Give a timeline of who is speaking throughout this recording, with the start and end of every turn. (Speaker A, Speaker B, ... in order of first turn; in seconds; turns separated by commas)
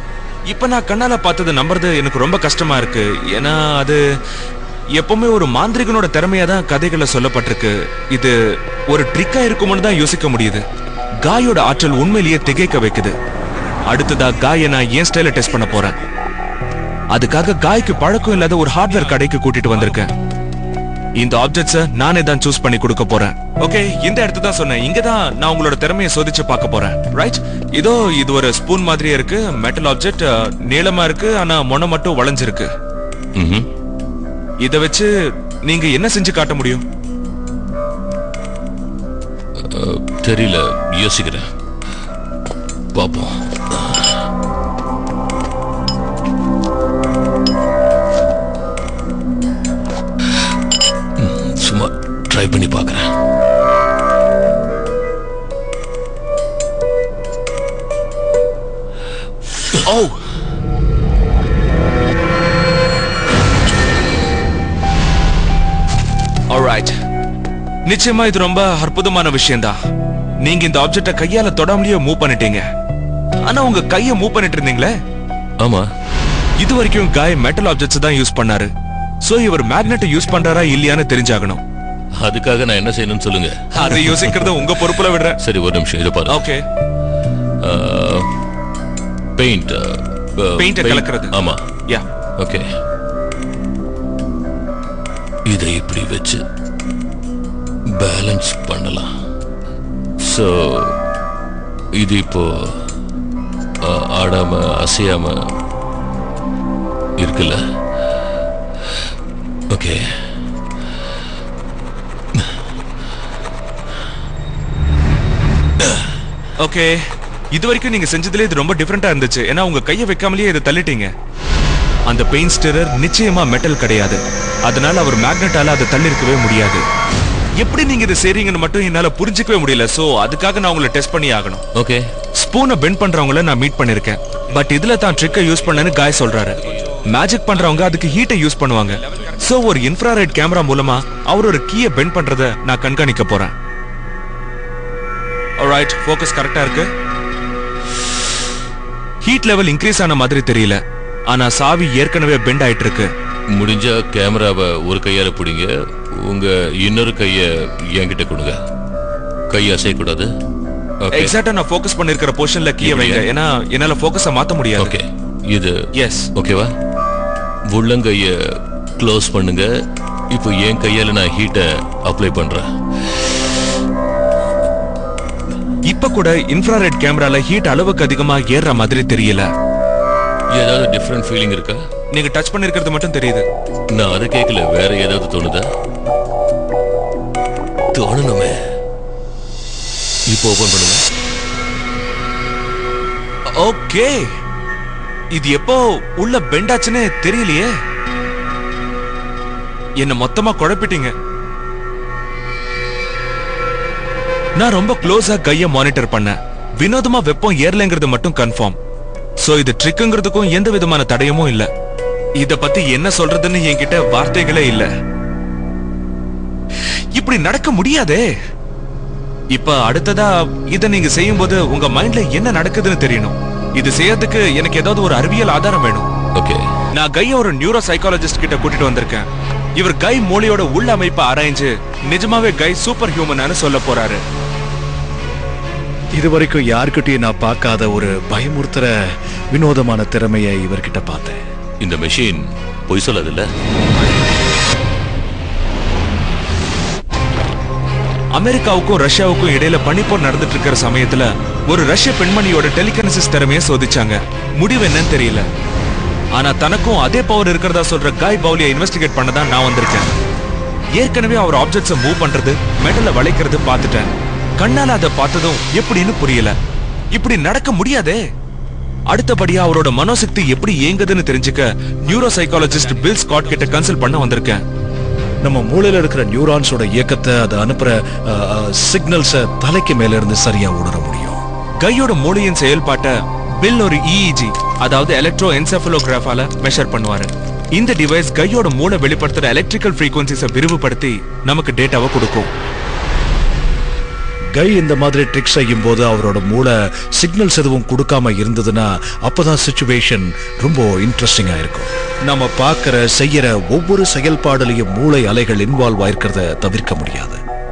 Speaker A: 0.5-4.0, Speaker A: 4.9-8.3, Speaker A: 8.9-10.6, Speaker A: 11.2-13.1, Speaker A: 13.9-16.0, Speaker A: 17.1-20.1, Speaker A: 21.2-32.7, Speaker B: 33.4-33.7, Speaker A: 34.6-35.1, Speaker A: 35.6-36.8, Speaker B: 39.7-41.4, Speaker B: 42.9-44.2, Speaker B: 51.2-53.1, Speaker A: 59.8-60.2, Speaker A: 66.5-67.0, Speaker A: 67.9-69.8, Speaker A: 70.4-72.6, Speaker A: 73.4-74.9, Speaker B: 75.6-75.8, Speaker A: 76.6-78.7, Speaker A: 79.2-81.6, Speaker B: 82.2-84.6, Speaker A: 83.7-85.4, Speaker B: 85.4-86.5, Speaker A: 86.3-86.6, Speaker B: 87.6-88.2, Speaker B: 89.4-91.6, Speaker A: 90.6-91.3, Speaker B: 95.5-96.4, Speaker B: 98.0-99.1, Speaker B: 100.3-100.9, Speaker B: 102.0-102.8, Speaker B: 103.8-105.3, Speaker B: 107.2-107.6, Speaker B: 109.7-110.0, Speaker A: 116.6-121.1, Speaker A: 122.1-126.8, Speaker A: 127.6-131.6, Speaker B: 131.7-132.1, Speaker A: 132.4-143.5, Speaker A: 145.6-146.9, Speaker A: 149.2-153.1, Speaker B: 153.5-155.7, Speaker B: 156.2-158.5, Speaker B: 159.5-160.3, Speaker B: 161.0-161.3, Speaker A: 161.1-164.9, Speaker B: 162.8-163.2, Speaker B: 164.8-165.7, Speaker A: 165.9-166.3, Speaker B: 166.3-166.7, Speaker B: 167.7-168.3, Speaker B: 169.0-169.7, Speaker B: 170.3-172.6, Speaker A: 175.9-179.5, Speaker B: 180.5-181.8, Speaker A: 182.1-183.4, Speaker B: 183.9-185.6, Speaker B: 187.9-188.6, Speaker B: 190.3-191.0, Speaker A: 193.6-194.2, Speaker A: 195.3-197.7, Speaker A: 200.0-201.1, Speaker A: 204.6-208.8, Speaker A: 209.4-211.7, Speaker A: 212.4-214.9, Speaker A: 217.1-218.2, Speaker A: 219.5-226.1, Speaker B: 226.3-226.6, Speaker A: 226.9-234.2, Speaker C: 236.1-238.9, Speaker C: 239.5-241.4, Speaker B: 241.8-243.4, Speaker A: 248.3-255.4, Speaker A: 256.3-260.1, Speaker A: 260.9-266.5, Speaker A: 267.1-268.2, Speaker A: 269.1-274.6, Speaker C: 275.4-281.4, Speaker A: 281.8-292.5, Speaker C: 294.6-307.4